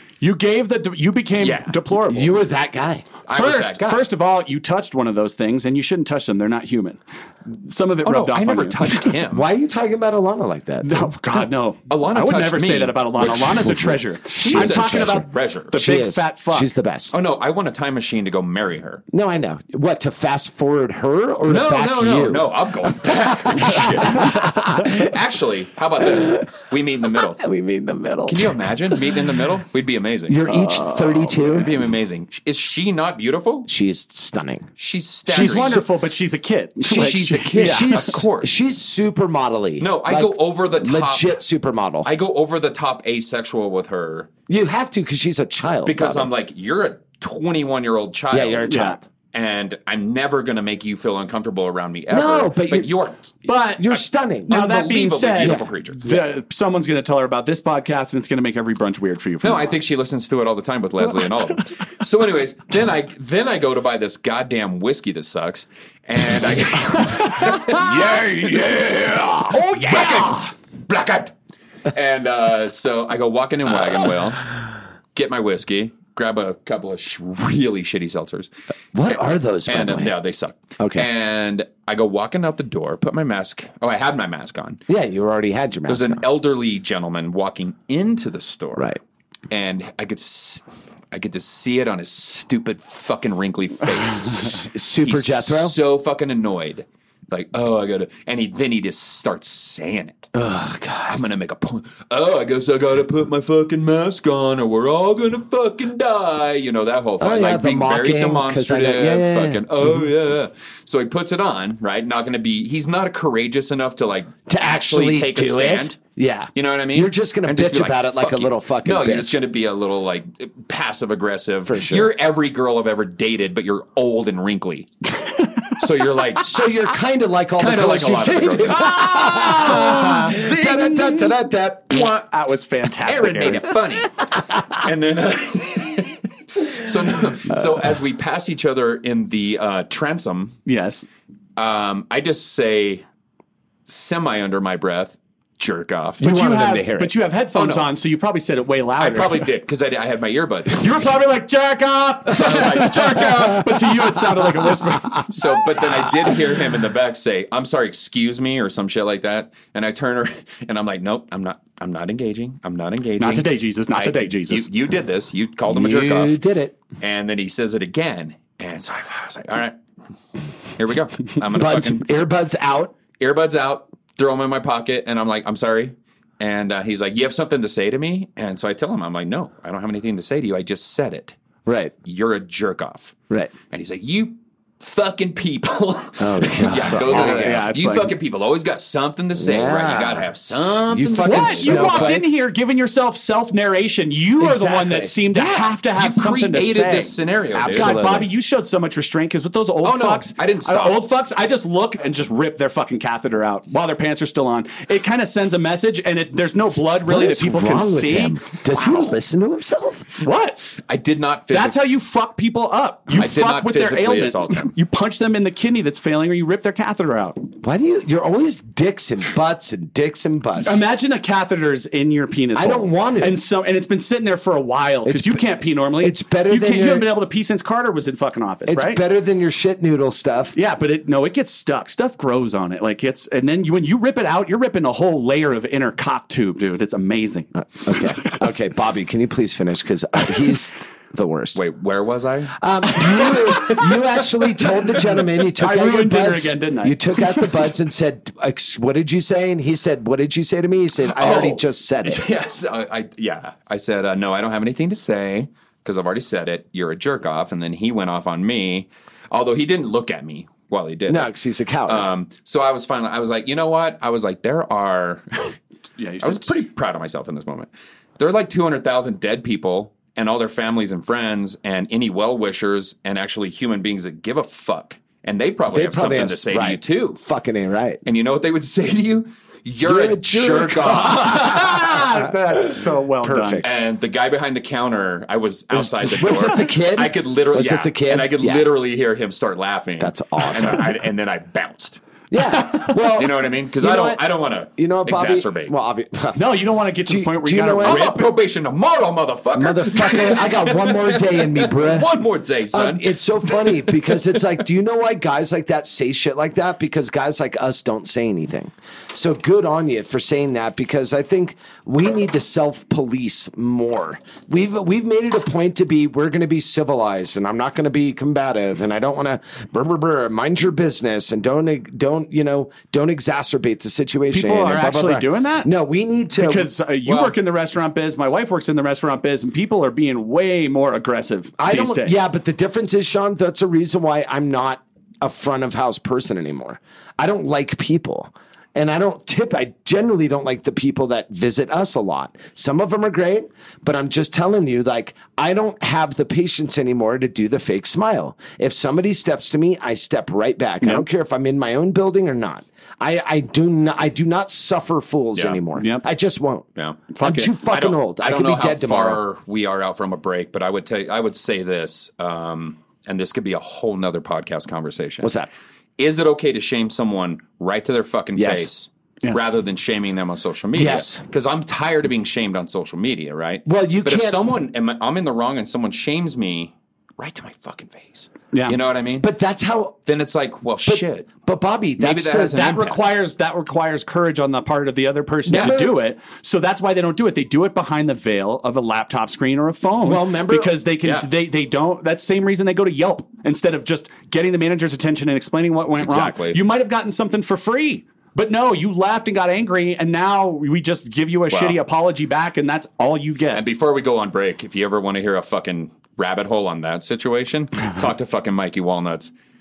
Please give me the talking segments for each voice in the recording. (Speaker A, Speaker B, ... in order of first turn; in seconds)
Speaker A: 0.2-2.4, 3.3-9.1, 10.8-16.7, 30.5-31.5, 35.3-38.2, 48.7-49.0, 53.5-59.7, 69.5-70.4, 128.8-131.3, 131.9-133.7, 140.7-141.1, 146.2-149.4, 150.8-155.2, 163.2-164.7, 186.9-188.1, 191.2-197.1, 197.7-208.4, 210.2-210.7, 211.5-217.4, 220.6-229.0, 230.5-238.4, 245.6-247.5, 266.0-266.6, 281.1-283.6, 296.3-298.2, 324.3-325.7, 326.4-332.2, 355.8-356.0, 357.1-357.5, 382.4-403.6
Speaker B: 1.4-1.7, 3.3-4.1, 8.0-9.5, 11.9-15.7, 17.1-19.0, 21.5-27.4, 28.3-30.4, 31.4-33.7, 34.8-35.8, 36.8-38.5, 39.8-41.4, 42.0-44.3, 45.8-48.7, 49.3-53.3, 54.5-56.0, 59.4-71.3, 71.9-74.5, 75.1-78.5, 79.7-84.8, 85.9-88.9, 89.5-100.3, 101.1-116.0, 116.5-124.9, 125.7-126.6, 127.6-129.0, 133.0-140.6, 141.6-143.0, 143.9-146.2, 147.5-147.9, 149.0-151.0, 152.3-153.8, 155.3-166.4, 167.0-169.8, 170.8-172.1, 173.2-181.3, 182.0-183.2, 183.7-192.2, 195.4-198.0, 199.8-201.0, 208.7-209.0, 210.8-211.8, 213.1-214.7, 241.5-243.8, 251.2-261.3, 261.9-265.6, 266.2-277.2, 278.0-281.6, 283.6-292.0, 293.1-295.7, 297.8-304.2, 327.0-327.4, 355.4-355.6, 356.8-357.0, 357.7-365.3, 366.0-379.3, 380.1-381.3, 382.0-383.0, 391.0-391.3, 396.0-396.6, 401.5-401.8, 403.5-409.3
Speaker C: 2.1-3.1, 9.3-11.4, 13.8-17.1, 19.1-25.1, 26.0-26.6, 27.1-28.7, 30.3-31.7, 33.7-34.7, 35.3-35.8, 36.9-42.1, 44.5-46.3, 48.3-49.0, 52.1-52.9, 53.7-56.2, 67.7-69.5, 78.9-80.1, 80.8-81.1, 84.9-86.2, 94.4-95.7, 100.3-101.2, 107.2-109.6, 114.5-119.4, 121.7-122.1, 126.4-132.1, 146.2-147.2, 165.7-166.8, 171.5-172.9, 181.7-181.9, 186.2-187.7, 189.3-192.2, 194.4-195.6, 197.5-198.3, 207.1-210.2, 217.6-220.8, 222.5-223.4, 225.0-225.5, 226.0-227.1, 228.7-230.6, 237.8-241.6, 242.6-252.2, 261.1-262.1, 275.7-278.0, 279.8-282.3, 283.2-283.7, 285.7-288.7, 290.0-290.9, 292.3-294.2, 294.8-298.2, 299.5-302.1, 302.7-326.7, 331.6-356.7, 357.2-359.2, 365.2-365.5, 368.4-368.7, 370.7-371.2, 373.6-374.5, 379.2-380.0, 380.8-382.7, 385.4-386.0, 390.0-390.8